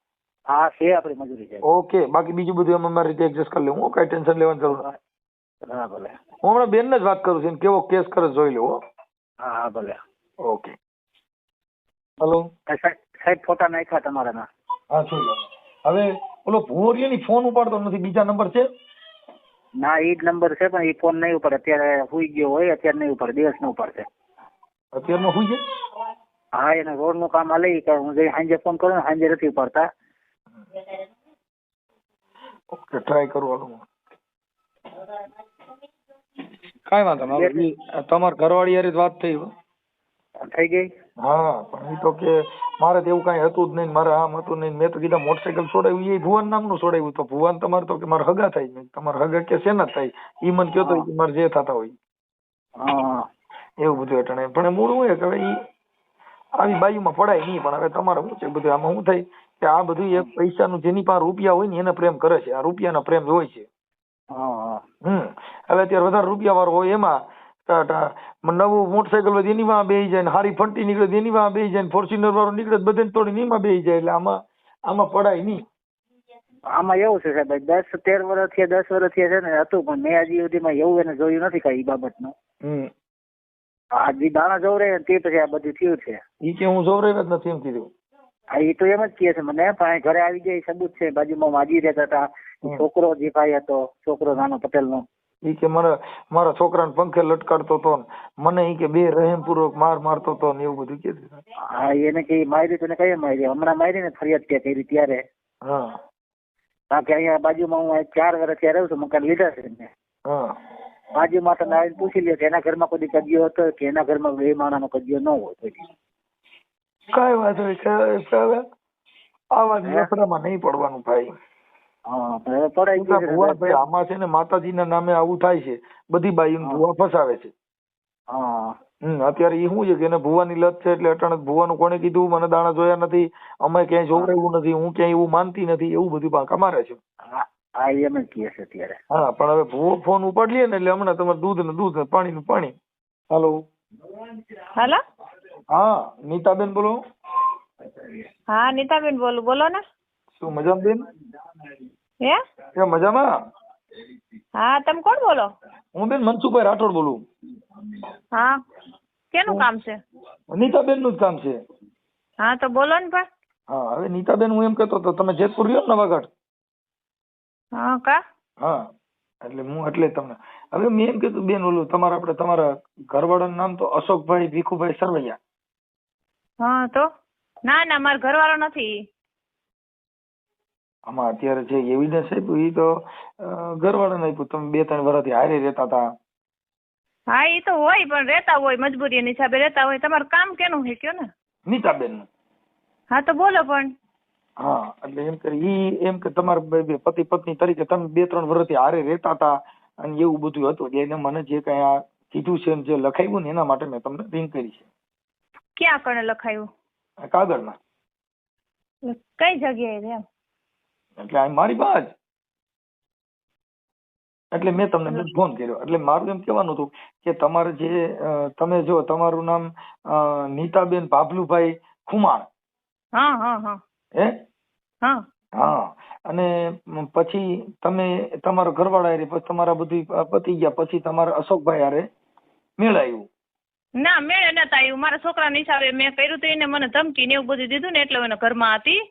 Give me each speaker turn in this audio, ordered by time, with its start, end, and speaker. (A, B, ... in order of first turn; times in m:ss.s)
0:00.5-0:01.6 A
0:01.6-0:04.8 B
0:04.7-0:05.0 A
0:05.6-0:06.2 A
0:06.4-0:08.8 B
0:09.4-0:10.0 A
0:10.4-0:10.8 B
0:12.2-0:12.5 B
0:12.7-0:14.5 A
0:14.9-0:18.7 B
0:19.8-0:24.1 A
0:24.9-0:25.6 B
0:26.6-0:29.9 A
0:32.7-0:33.9 B
0:36.9-0:39.5 B
0:37.2-0:37.7 A
0:40.4-0:40.9 A
0:41.2-0:52.0 B
0:50.8-0:51.1 A
0:52.8-0:53.2 A
0:53.8-0:55.6 B
0:56.6-1:03.7 B
1:04.3-1:04.8 A
1:05.0-1:07.2 B
1:07.7-1:15.6 B
1:16.7-1:22.3 A
1:22.6-1:22.9 B
1:24.0-1:26.2 A
1:26.4-1:27.9 B
1:28.6-1:35.0 A
1:35.4-1:41.4 B
1:41.6-1:45.2 A
1:45.6-1:46.0 B
1:46.9-1:49.9 A
1:50.3-1:50.6 B
1:51.1-1:55.9 A
1:57.1-1:58.6 B
1:59.5-2:01.3 B
2:02.1-2:03.8 A
2:03.0-2:07.5 B
2:08.3-2:08.7 A
2:09.0-2:17.0 B
2:17.2-2:19.0 A
2:19.1-2:22.8 B
2:23.3-2:23.6 B
2:24.8-2:25.0 C
2:25.7-2:27.0 B
2:28.5-2:29.8 C
2:30.4-2:31.1 B
2:32.8-2:33.3 B
2:34.6-2:35.5 C
2:36.0-2:37.2 B
2:38.4-2:38.6 C
2:39.3-2:40.0 C
2:40.5-2:41.6 B
2:42.4-2:43.3 C
2:43.7-2:46.3 B
2:47.8-2:48.2 C
2:48.6-2:48.8 B
2:49.4-2:55.4 B
2:56.6-2:57.1 C
2:57.7-2:59.0 C
3:01.1-3:06.1 B
3:07.3-3:11.3 C
3:11.7-3:12.3 B
3:13.1-3:13.9 C
3:14.6-3:24.8 B
3:25.8-3:26.7 C
3:27.2-3:27.8 B
3:29.0-3:30.2 C
3:31.2-3:32.1 B
3:34.5-3:42.5 B
3:43.2-3:43.8 C
3:44.2-3:44.4 B
3:45.6-3:52.1 B
3:52.8-3:53.3 B
3:54.0-3:59.0 C